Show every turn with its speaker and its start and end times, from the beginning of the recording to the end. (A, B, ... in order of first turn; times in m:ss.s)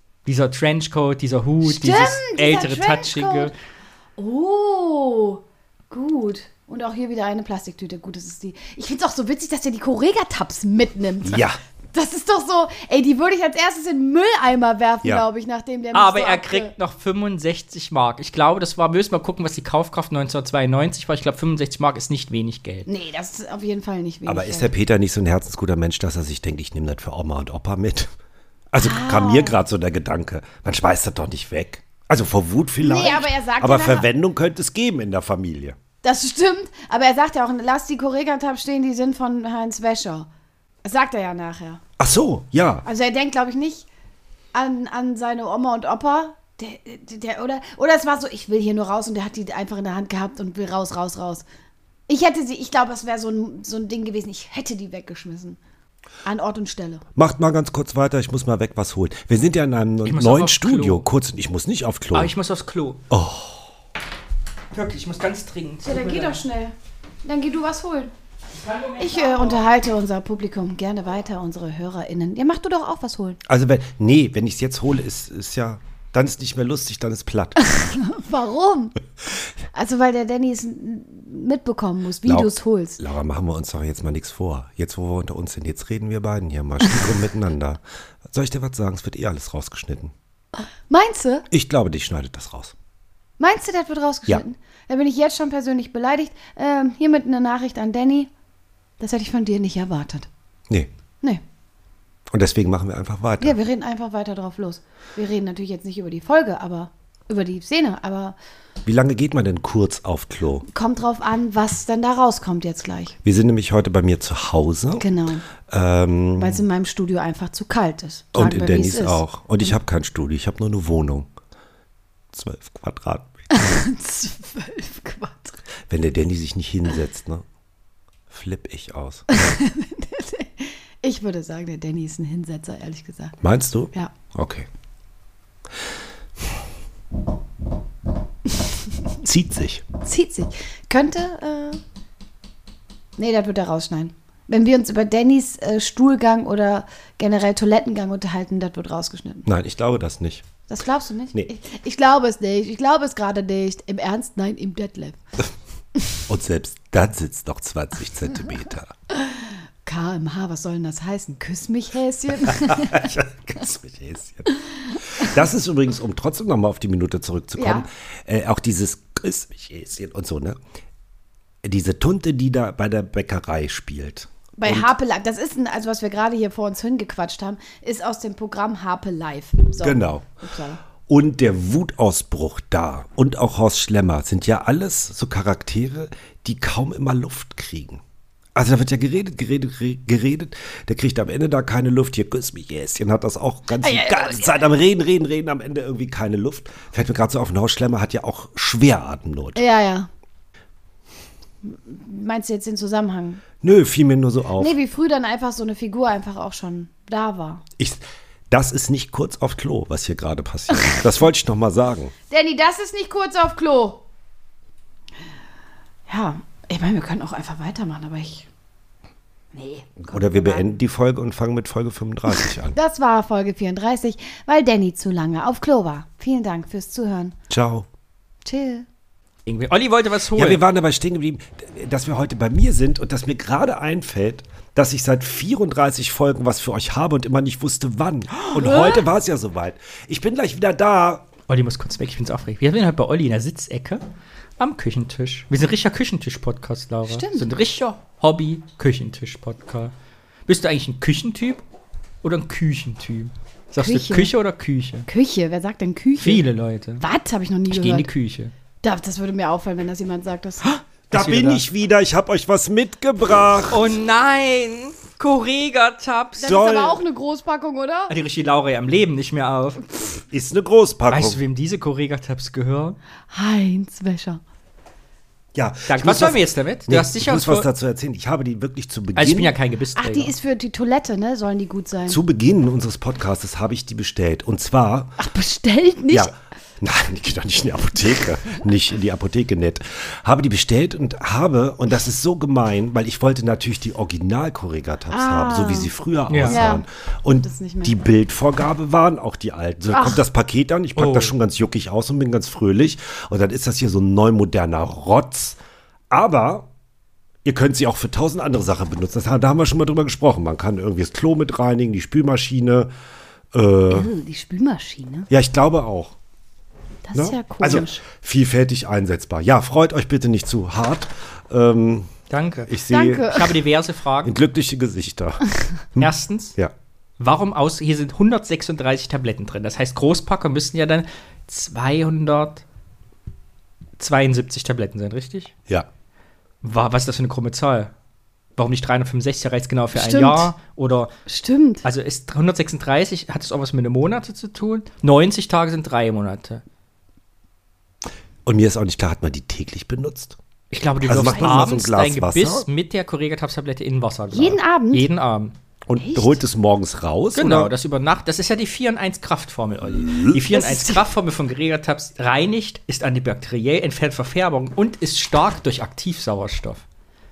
0:00.2-0:03.5 A
0:01.6-0:03.5 B
0:04.2-0:16.7 B
0:11.2-0:11.6 C
0:15.9-0:22.9 A
0:22.9-0:24.7 B
0:24.2-0:28.1 C
0:28.7-0:35.8 C
0:28.8-0:29.6 B
0:32.8-0:34.1 B
0:36.0-0:40.3 B
0:40.8-0:41.8 B
0:42.0-0:42.8 C
0:42.8-0:43.8 B
0:44.5-0:51.4 B
0:52.1-0:55.6 B
0:56.2-0:57.0 B
0:57.1-1:02.3 C
1:00.0-1:01.0 A
1:02.1-1:03.0 A
1:03.1-1:03.7 C
1:04.7-1:06.4 A
1:05.8-1:06.7 B
1:07.2-1:08.1 B
1:09.0-1:13.4 B
1:13.4-1:17.8 C
1:17.7-1:18.9 B
1:19.7-1:23.0 B
1:22.2-1:30.1 C
1:30.9-1:31.4 B
1:31.5-1:32.7 C
1:33.4-1:38.3 B
1:39.0-1:40.3 B
1:42.3-1:43.6 C
1:43.4-1:48.4 B
1:48.8-1:50.7 C
1:50.7-1:53.2 B
1:53.2-1:55.1 C
1:55.0-1:55.4 B
1:55.6-1:56.6 C
1:56.4-1:59.7 B
1:58.3-2:01.3 C
2:02.3-2:03.3 C
2:03.5-2:05.6 B
2:05.9-2:07.4 C
2:08.3-2:09.3 C
2:09.3-2:13.4 B
2:13.4-2:14.7 C
2:19.2-2:19.8 C
2:20.0-2:21.8 B
2:23.2-2:29.4 B
2:29.4-2:30.4 C
2:30.7-2:35.2 B
2:36.2-2:38.9 C
2:39.2-2:43.1 B
2:42.4-2:44.6 C
2:45.2-2:50.6 C
2:47.6-2:47.8 B
2:51.6-2:54.9 C
2:54.6-3:00.8 B
2:59.8-3:00.4 C
3:01.0-3:08.0 C
3:08.6-3:19.6 C
3:13.8-3:14.6 B
3:19.6-3:20.1 B
3:21.6-3:23.4 B
3:23.6-3:24.7 C
3:24.6-3:27.6 B
3:27.8-3:32.1 C
3:32.3-3:34.0 B
3:36.1-3:38.5 B
3:39.5-3:40.7 B
3:40.1-3:42.8 C
3:42.7-3:47.3 B
3:47.5-3:47.8 C
3:48.4-3:48.8 B
3:49.4-3:50.6 A
3:50.3-4:01.3 C
4:01.5-4:04.0 A
4:04.6-4:09.9 A
4:07.1-4:07.5 B
4:10.5-4:11.6 A
4:12.2-4:15.0 A
4:13.8-4:14.3 B
4:15.0-4:16.5 B
4:16.2-4:17.0 A
4:17.0-4:18.1 B
4:17.7-4:18.5 A
4:18.8-4:20.6 B
4:20.6-4:21.6 A
4:21.1-4:23.8 C
4:23.7-4:26.5 A
4:26.4-4:28.1 B
4:26.4-4:27.0 C
4:28.1-4:30.0 A
4:30.2-4:31.4 C
4:31.1-4:33.0 A
4:33.3-4:34.4 B
4:35.5-4:39.5 C
4:35.9-4:37.7 A
4:39.1-4:40.3 A
4:40.0-4:42.2 B
4:42.1-4:45.2 C
4:45.2-4:46.3 B
4:46.1-5:05.6 C
4:55.1-4:55.9 B
4:56.3-4:56.6 A
4:56.5-4:56.8 B
4:57.4-4:57.9 B
4:59.9-5:00.2 B
5:01.0-5:01.3 A
5:06.1-5:06.7 C
5:07.4-5:12.9 C
5:13.5-5:14.1 C
5:13.9-5:15.3 B
5:15.3-5:16.2 C
5:17.0-5:18.0 B
5:17.1-5:22.1 C
5:22.3-5:22.7 A
5:22.7-5:23.4 C
5:22.9-5:23.6 B
5:23.3-5:24.3 A
5:24.2-5:26.7 C
5:26.0-5:26.6 A
5:27.2-5:32.6 A
5:34.0-5:35.5 A
5:36.6-5:37.9 A
5:38.6-5:41.1 A
5:39.9-5:40.5 B
5:41.3-5:41.8 B
5:41.8-5:46.6 A
5:48.4-5:50.4 C
5:50.7-5:55.5 A
5:51.0-5:52.7 C
5:54.3-5:55.1 B
5:55.9-5:57.7 C
5:56.0-5:56.4 B
5:57.3-6:06.8 A
6:00.0-6:00.3 C
6:00.5-6:01.1 B